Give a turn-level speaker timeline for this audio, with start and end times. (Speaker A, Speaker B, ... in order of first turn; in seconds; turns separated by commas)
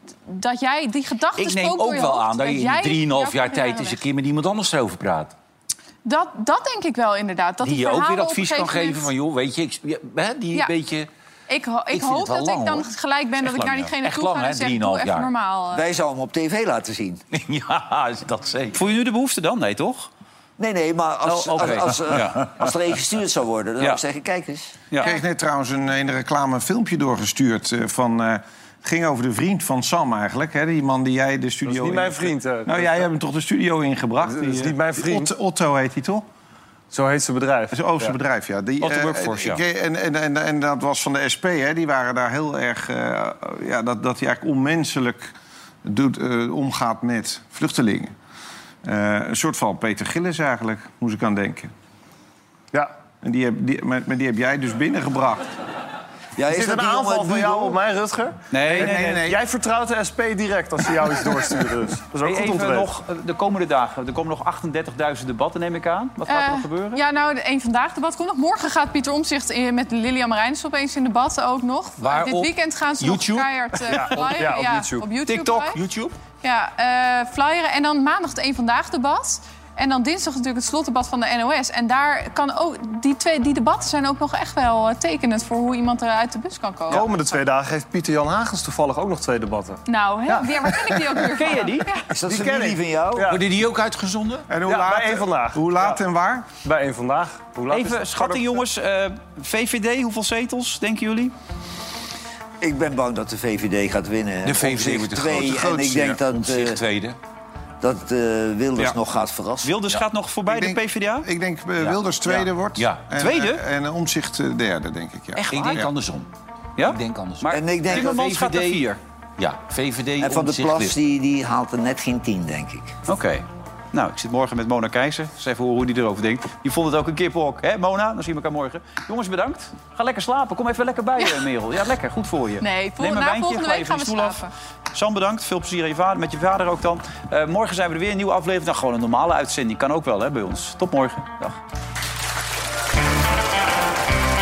Speaker A: 0.3-4.0, Speaker B: 1.4-5.3, Speaker A: 6.0-9.1, Speaker B: 7.6-11.1, Speaker A: 11.5-15.8, Speaker B: 11.9-15.3, Speaker C: 15.7-17.2, Speaker B: 17.3-18.8, Speaker D: 18.7-20.1, Speaker C: 20.6-24.7, Speaker D: 21.2-22.5, Speaker D: 24.9-25.2, Speaker E: 25.0-36.2, Speaker F: 31.6-33.0, Speaker F: 34.2-35.3, Speaker F: 36.9-38.1, Speaker E: 37.7-45.3, Speaker D: 38.8-39.6, Speaker E: 45.8-48.1, Speaker E: 48.8-51.7, Speaker E: 53.2-55.5, Speaker C: 56.4-57.8, Speaker F: 56.5-62.9, Speaker D: 58.5-59.2, Speaker E: 58.7-59.4, Speaker D: 62.2-67.0, Speaker A: 66.3-75.8, Speaker B: 72.0-73.5, Speaker F: 73.9-75.1, Speaker D: 75.3-75.8, Speaker B: 75.7-76.1, Speaker A: 76.4-87.1, Speaker F: 86.9-90.4, Speaker A: 89.8-92.0, Speaker D: 91.3-91.8, Speaker C: 92.1-93.3, Speaker E: 92.3-92.7, Speaker F: 92.7-93.4, Speaker B: 93.3-94.5, Speaker E: 94.5-96.5, Speaker F: 94.6-96.0, Speaker F: 96.6-98.6, Speaker D: 97.7-101.3, Speaker C: 102.6-106.8, Speaker B: 104.4-107.2, Speaker E: 105.4-106.2, Speaker C: 107.8-109.7, Speaker D: 109.6-111.3, Speaker E: 110.5-115.9, Speaker B: 111.8-113.0, Speaker D: 113.1-113.6, Speaker D: 115.3-115.9, Speaker B: 115.5-121.0, Speaker D: 116.8-119.0, Speaker C: 117.5-118.2, Speaker C: 120.2-122.9, Speaker D: 123.0-141.6, Speaker A: 132.6-134.5